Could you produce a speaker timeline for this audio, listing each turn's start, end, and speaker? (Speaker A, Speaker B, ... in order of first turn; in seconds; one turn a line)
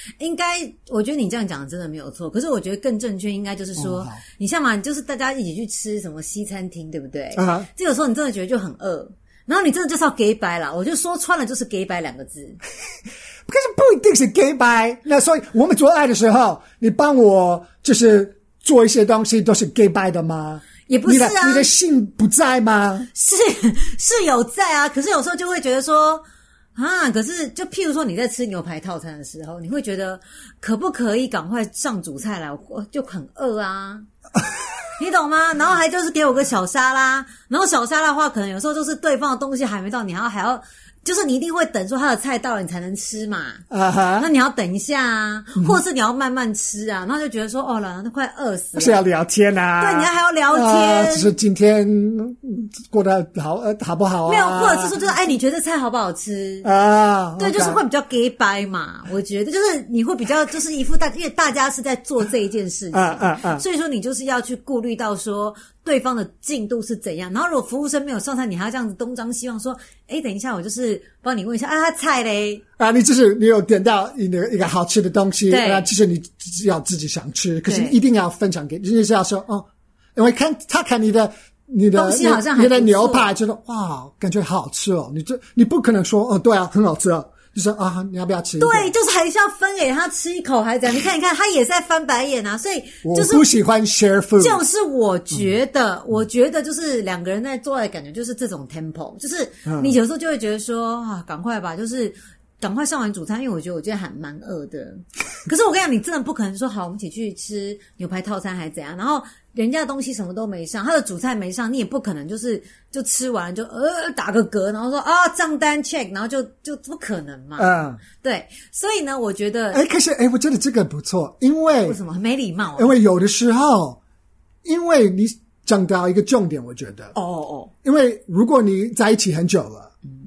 Speaker A: 0.2-12.6
Speaker B: 3.8-4.2
Speaker B: 7.3-7.7
Speaker B: 13.5-23.1
Speaker A: 20.9-21.7
Speaker A: 23.1-26.2
Speaker A: 26.7-34.1
Speaker A: 35.0-43.6
Speaker B: 43.7-44.3
Speaker A: 44.2-49.0
Speaker B: 48.8-54.9
Speaker A: 49.8-51.3
Speaker A: 54.2-56.7
Speaker B: 56.6-57.8
Speaker A: 57.4-72.6
Speaker B: 62.9-63.6
Speaker B: 72.8-88.9
Speaker A: 75.5-75.9
Speaker A: 77.7-78.0
Speaker A: 81.9-83.3
Speaker A: 88.6-93.5
Speaker B: 93.0-94.6
Speaker A: 94.4-119.8
Speaker B: 99.7-99.9
Speaker B: 117.6-118.0
Speaker B: 119.7-122.0
Speaker A: 121.8-122.9
Speaker B: 122.8-124.0
Speaker B: 124.6-127.1
Speaker A: 127.1-127.7
Speaker B: 127.8-129.9